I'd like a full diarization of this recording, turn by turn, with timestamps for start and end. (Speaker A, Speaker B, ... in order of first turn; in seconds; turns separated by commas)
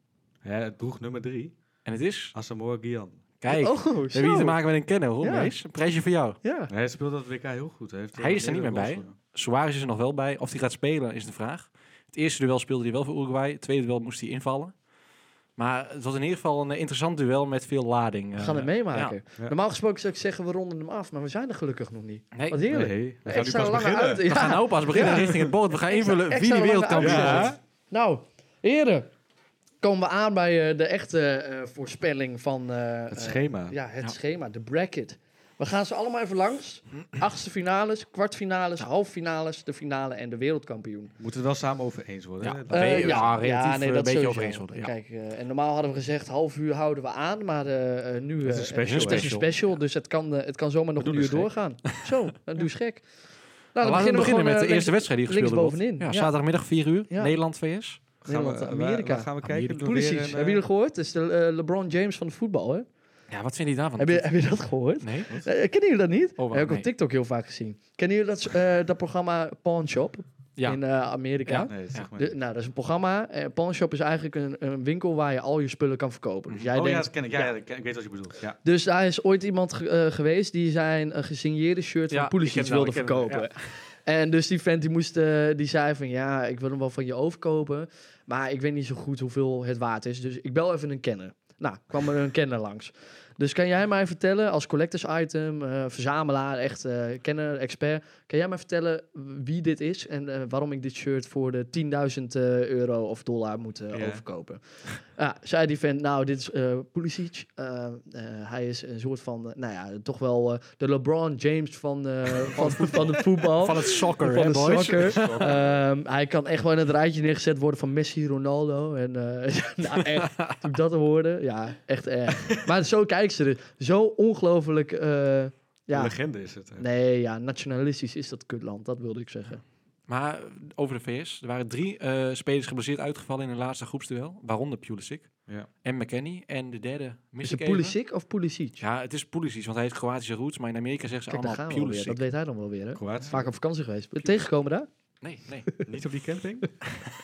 Speaker A: 0.4-1.5, Speaker B: 1.8-2.3, Speaker A: 2.3-3.2, Speaker B: 3.4-6.4, Speaker C: 3.5-4.6, Speaker C: 5.2-5.5, Speaker C: 6.4-6.7, Speaker A: 6.7-9.1, Speaker B: 8.2-14.7, Speaker B: 15.6-19.1, Speaker C: 18.4-29.1, Speaker B: 22.3-22.6, Speaker A: 22.7-24.3, Speaker B: 24.2-27.5, Speaker A: 27.0-27.6, Speaker C: 29.8-41.1, Speaker A: 33.1-33.8, Speaker A: 41.2-43.4, Speaker B: 42.4-44.9, Speaker C: 42.7-53.0, Speaker A: 48.4-49.4, Speaker B: 48.8-49.5, Speaker A: 51.0-51.5, Speaker C: 53.7-56.3, Speaker B: 53.8-58.0, Speaker C: 57.1-57.4, Speaker A: 58.2-60.6, Speaker C: 58.2-62.9, Speaker B: 59.4-59.8, Speaker B: 63.3-64.3, Speaker C: 64.0-77.1, Speaker B: 65.0-65.3, Speaker B: 66.4-66.8, Speaker B: 71.5-72.1, Speaker A: 71.6-72.3, Speaker A: 76.7-78.6, Speaker C: 78.6-126.2, Speaker B: 82.1-83.7, Speaker A: 103.9-104.2, Speaker B: 112.5-115.4, Speaker A: 114.6-115.8, Speaker B: 120.0-120.6, Speaker A: 125.9-126.8, Speaker C: 126.8-129.6, Speaker B: 130.1-135.3, Speaker B: 135.8-137.9, Speaker C: 137.4-138.8, Speaker B: 138.8-142.2, Speaker C: 141.3-144.9, Speaker A: 142.9-143.4, Speaker B: 145.2-145.7, Speaker A: 145.8-146.7